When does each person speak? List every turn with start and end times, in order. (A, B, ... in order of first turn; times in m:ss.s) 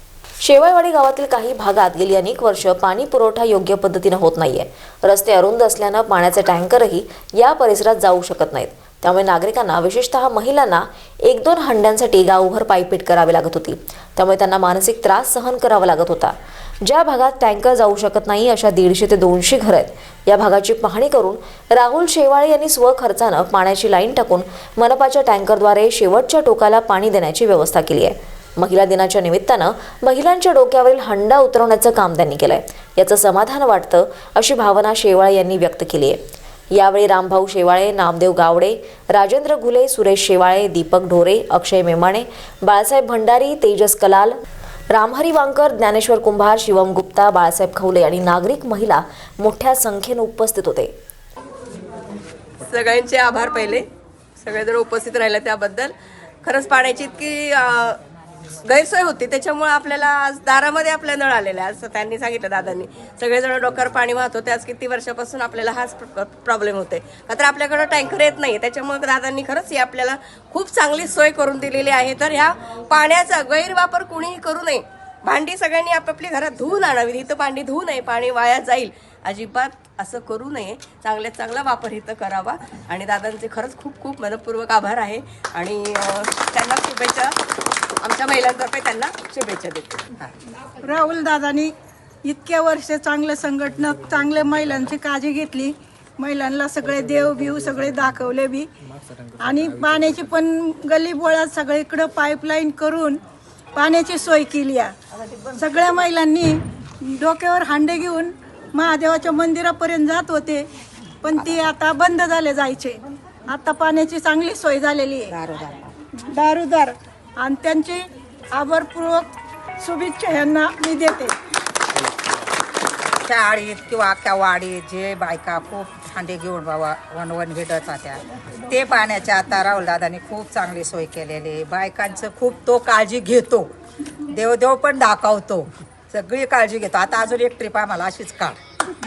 0:00.4-0:36.2 A
0:36.7-0:44.4 A
0:44.9-0:50.9 A
0:52.6-0:53.8 B
0:54.4-0:58.0 B
0:58.6-1:27.4 B
1:28.0-1:29.9 B
1:30.8-1:31.7 C
1:32.2-1:38.7 C
1:39.4-1:43.2 C
1:43.7-1:44.9 C
1:45.5-1:50.7 C
1:51.2-1:55.3 C
1:55.3-1:55.9 D
1:56.2-2:01.4 C
2:03.2-2:13.7 D
2:14.3-2:18.6 D